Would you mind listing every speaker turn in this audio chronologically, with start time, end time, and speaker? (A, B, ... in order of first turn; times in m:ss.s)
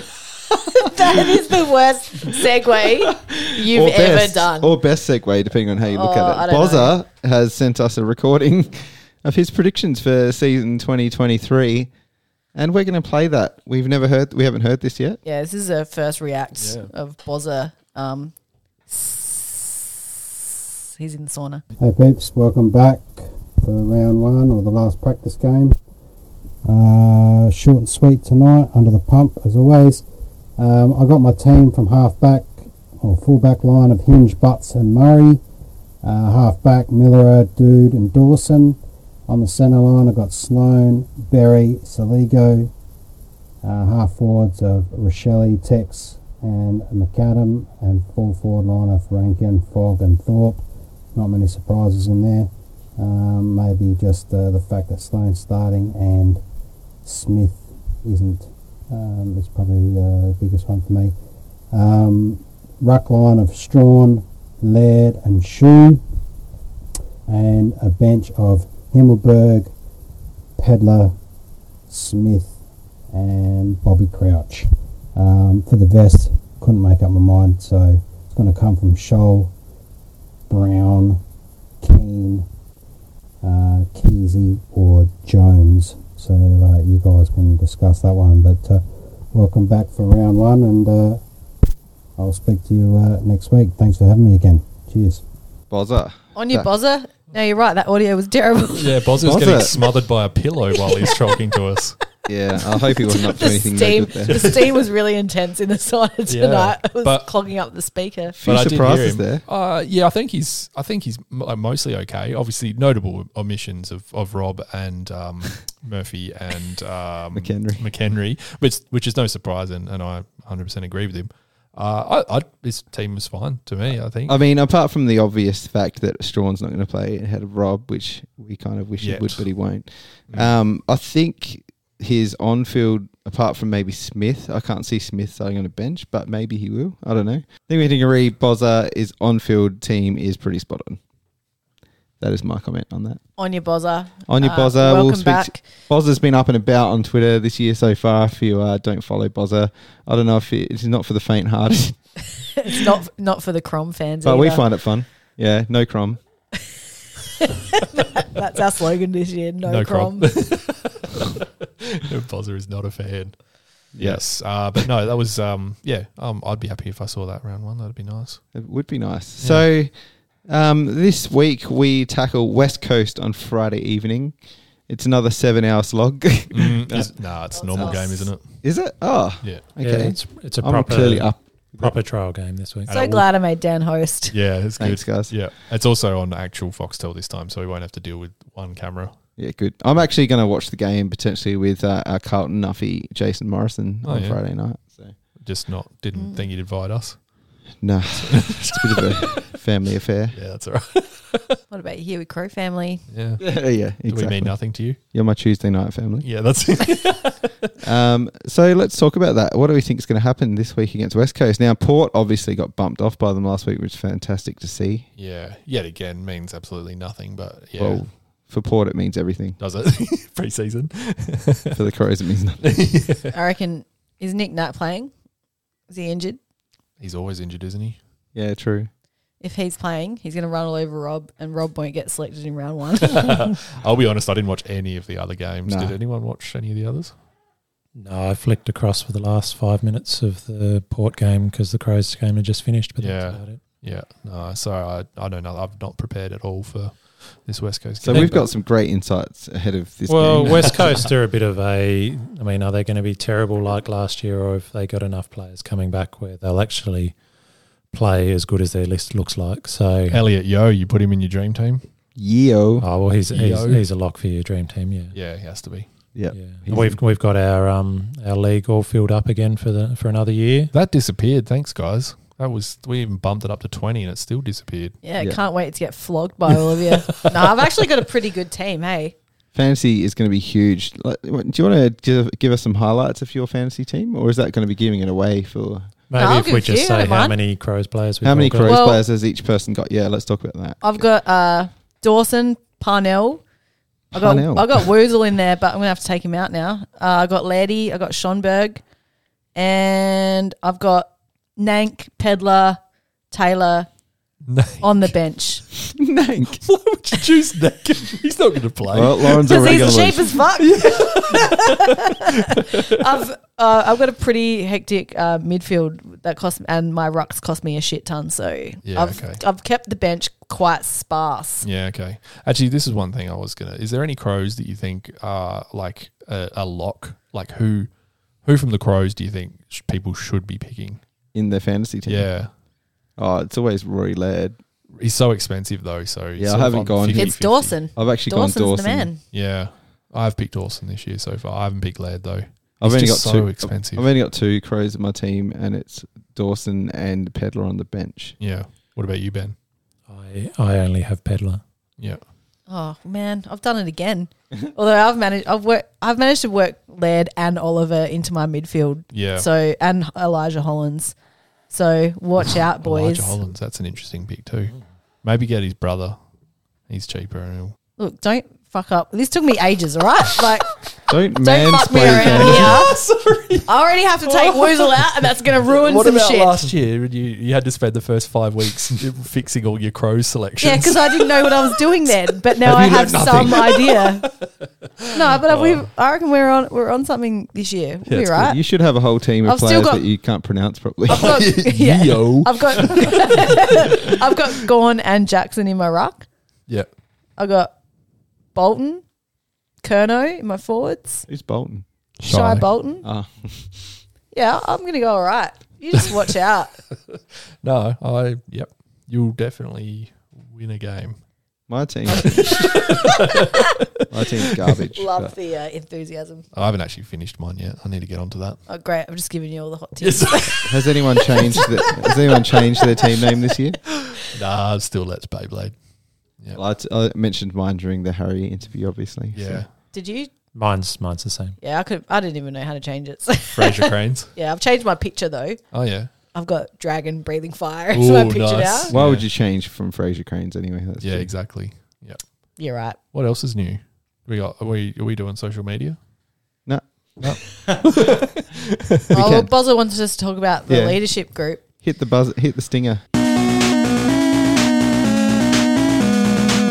0:00.8-0:04.8 A
0:03.1-0:11.9 B
0:05.9-0:07.0 A
0:12.6-0:15.2 B
0:15.2-0:18.3 A
0:16.6-0:16.9 C
0:18.9-0:19.9 A
0:21.0-0:21.6 A
0:21.8-0:25.8 D
0:26.6-0:30.0 D
0:30.6-0:35.4 D
0:36.0-0:42.7 D
0:43.6-0:50.6 D
0:51.1-0:56.4 D
0:57.0-1:01.1 D
1:01.7-1:06.0 D
1:07.3-1:09.7 D
1:10.6-1:11.1 D
1:11.9-1:12.6 D
1:13.1-1:19.5 D
1:20.5-1:21.2 D
1:21.8-1:22.5 D
1:23.4-1:31.2 D
1:32.2-1:35.2 D
1:35.7-1:36.7 B
1:36.4-1:39.0 A
1:38.8-1:42.0 C
1:39.2-1:39.8 B
1:42.3-1:44.4 B
1:43.0-1:48.4 A
1:44.3-1:44.8 C
1:46.3-1:47.3 C
1:48.4-1:49.4 B
1:48.4-2:04.4 C
1:57.3-1:57.9 B
2:04.3-2:21.0 B
2:09.0-2:09.5 C
2:22.2-2:23.2 B
2:23.4-2:25.6 A
2:24.3-2:32.0 B
2:32.6-2:34.6 A
2:34.2-2:36.2 B
2:37.4-2:40.3 A
2:39.7-2:41.3 C
2:42.0-2:43.4 C
2:43.9-2:44.2 B
2:43.9-2:48.4 C
2:48.5-2:49.9 B
2:49.4-2:49.7 C
2:50.4-2:54.4 B
2:54.9-2:57.1 B
2:56.5-2:58.4 C
2:57.5-2:58.3 A
2:58.6-3:02.0 B
2:59.8-3:02.9 E
3:02.9-3:03.2 C
3:02.9-3:04.3 A
3:04.3-3:09.1 C
3:04.8-3:05.3 B
3:09.4-3:15.2 B
3:14.0-3:14.4 C
3:15.4-3:17.2 C
3:16.2-3:16.4 A
3:17.8-3:20.4 B
3:18.2-3:19.6 C
3:20.3-3:21.6 C
3:21.7-3:23.0 A
3:23.1-3:23.4 C
3:23.4-3:26.3 B
3:24.0-3:25.0 C
3:26.2-3:27.5 C
3:27.8-3:35.1 B
3:35.2-3:38.0 C
3:37.8-3:39.6 B
3:39.6-3:41.8 C
3:41.7-3:42.7 B
3:42.6-3:43.3 C
3:43.3-3:45.1 A
3:45.9-3:46.4 A
3:47.0-3:48.0 C
3:48.4-3:48.9 B
3:49.4-3:53.4 A
3:53.0-3:57.1 C
3:55.7-3:55.9 B
3:58.0-4:03.6 E
4:03.0-4:08.5 C
4:08.0-4:11.1 B
4:08.1-4:08.5 E
4:10.1-4:17.2 E
4:10.4-4:10.8 C
4:17.9-4:20.2 E
4:20.1-4:21.8 C
4:22.2-4:22.9 B
4:22.8-4:25.2 E
4:23.3-4:23.8 C
4:25.1-4:25.9 C
4:26.2-4:27.0 B
4:26.3-4:30.7 E
4:30.7-4:35.0 C
4:35.0-4:39.2 A
4:39.5-4:45.9 B
4:46.1-4:48.8 E
4:46.2-4:47.4 A
4:48.2-4:51.0 B
4:48.7-4:49.0 A
4:50.8-4:53.4 A
4:54.1-4:54.9 B
4:54.1-4:58.8 A
4:59.6-5:02.8 A
5:03.3-5:03.9 A
5:04.5-5:05.1 C
5:04.8-5:05.6 A
5:06.0-5:06.6 B
5:06.6-5:09.5 C
5:08.9-5:10.4 B
5:09.4-5:21.7 A
5:10.6-5:12.9 C
5:18.8-5:19.4 C
5:21.6-5:27.9 C
5:28.4-5:31.0 C
5:31.3-5:32.3 B
5:32.1-5:32.5 C
5:33.2-5:34.6 B
5:35.0-5:37.8 C
5:36.4-5:39.1 B
5:37.1-5:39.2 A
5:39.3-5:44.1 C
5:42.8-5:48.4 B
5:48.4-5:49.6 C
5:50.1-5:51.6 E
5:52.7-6:01.2 A
5:59.1-5:59.5 C
6:01.7-6:03.4 A
6:02.5-6:06.2 C
6:06.9-6:07.8 C
6:08.0-6:10.7 A
6:11.1-6:12.9 B
6:11.4-6:13.0 A
6:12.1-6:13.7 C
6:13.7-6:16.7 A
6:14.2-6:24.5 C
6:20.6-6:24.3 A
6:22.8-6:23.6 B
6:25.0-6:25.9 C
6:25.1-6:28.6 A
6:28.1-6:28.3 C
6:28.3-6:31.4 B
6:29.4-6:30.0 A
6:31.1-6:36.3 A
6:31.1-6:34.0 C
6:37.4-6:37.7 A
6:38.6-6:39.0 A
6:39.8-6:41.3 A
6:41.3-6:41.8 B
6:42.2-6:42.7 C
6:42.3-6:43.1 A
6:43.0-6:43.9 B
6:44.3-6:46.7 A
6:47.6-6:51.2 C
6:51.7-6:52.7 B
6:52.4-6:53.5 C
6:54.1-6:55.3 B
6:55.0-6:56.4 A
6:56.5-6:58.6 C
6:58.7-7:00.7 A
7:00.0-7:00.7 C
7:00.7-7:03.8 B
7:04.2-7:05.8 C
7:06.6-7:09.6 B
7:09.3-7:09.7 C
7:09.9-7:10.3 A
7:10.5-7:11.6 E
7:11.6-7:15.6 A
7:13.5-7:14.3 C
7:15.7-7:16.1 C
7:16.3-7:18.9 A
7:17.9-7:19.3 C
7:18.9-7:21.3 B
7:21.0-7:22.2 C
7:22.6-7:23.0 A
7:23.1-7:26.0 C
7:26.7-7:27.6 B
7:27.2-7:28.5 C
7:29.1-7:29.5 B
7:29.1-7:31.6 A
7:30.7-7:31.0 B
7:31.8-7:33.0 B